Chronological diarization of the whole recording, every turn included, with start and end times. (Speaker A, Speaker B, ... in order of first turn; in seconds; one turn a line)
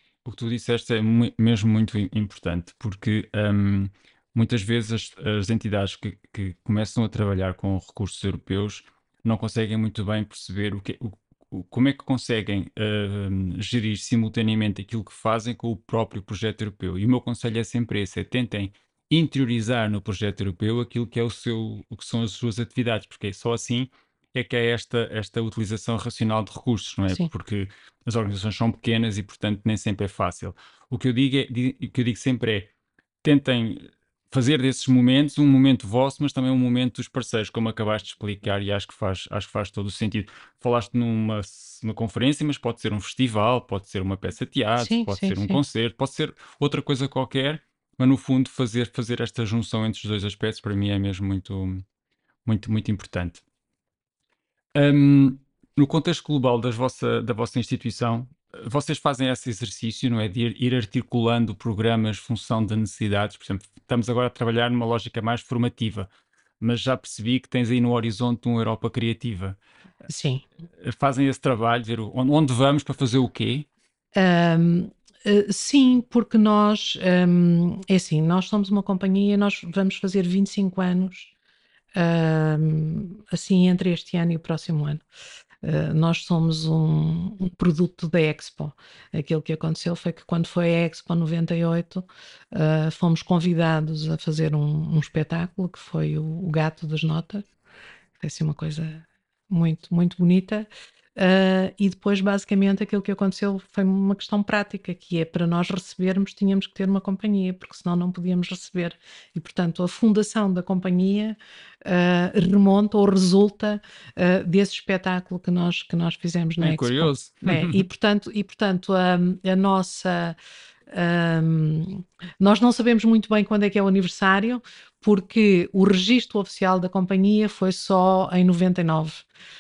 Speaker A: 0.2-32.7
Speaker A: 33.2-51.9
Speaker B: 44.8-45.6
Speaker A: 52.5-53.4
Speaker A: 54.7-66.1
Speaker A: 66.6-69.6
Speaker B: 70.1-70.4
Speaker A: 70.8-73.7
Speaker B: 74.2-81.3
Speaker B: 82.0-85.0
Speaker B: 85.6-97.5
Speaker B: 98.2-120.4
Speaker A: 116.6-117.8
Speaker B: 120.9-129.3